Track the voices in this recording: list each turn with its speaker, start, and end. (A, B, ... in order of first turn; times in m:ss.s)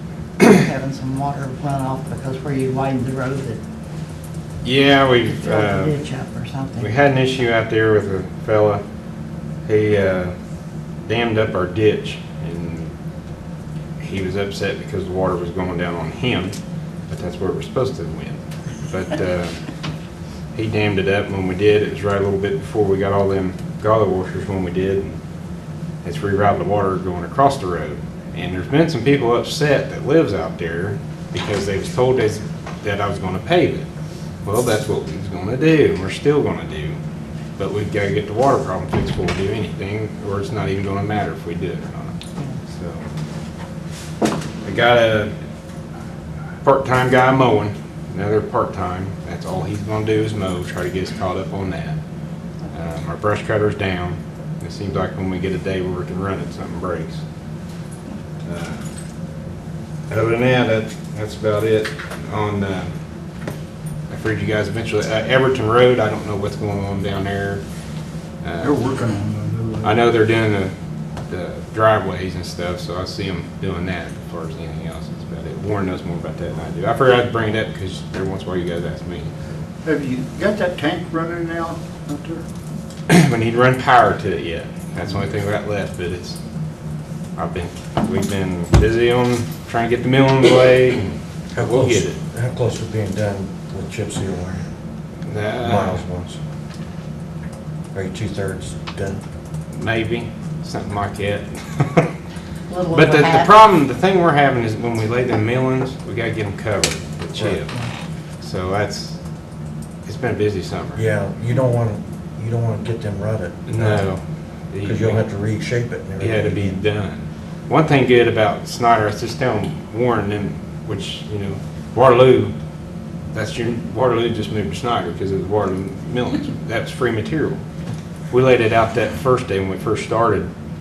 0:00.4-0:03.6 A
0:04.6-0:06.0 B
0:05.2-0:06.9 A
0:06.8-0:08.8 B
0:09.7-0:10.3 B
0:11.0-0:12.9 B
0:14.0-0:16.6 B
0:17.1-0:19.6 B
0:20.5-0:25.2 B
0:26.0-0:33.9 B
0:34.4-0:37.0 B
0:37.6-0:43.1 B
0:44.6-0:45.3 B
0:46.6-0:52.0 B
0:52.7-0:57.2 B
0:58.4-0:58.8 B
1:00.1-1:02.9 B
1:04.1-1:07.6 B
1:08.4-1:08.8 B
1:08.6-1:10.0 C
1:09.8-1:10.7 B
1:11.3-1:19.3 B
1:19.8-1:22.4 C
1:23.1-1:26.4 B
1:27.4-1:32.2 B
1:31.6-1:34.6 D
1:35.3-1:36.0 B
1:35.6-1:36.4 D
1:37.9-1:39.2 D
1:39.7-1:42.1 B
1:42.7-1:43.5 A
1:42.9-1:47.7 B
1:47.4-1:47.6 D
1:48.4-1:49.2 B
1:50.0-1:51.0 B
1:51.0-1:54.1 D
1:53.7-1:55.3 B
1:54.8-1:56.8 D
1:56.2-2:02.6 B
2:03.3-2:07.6 B
2:08.3-2:10.5 B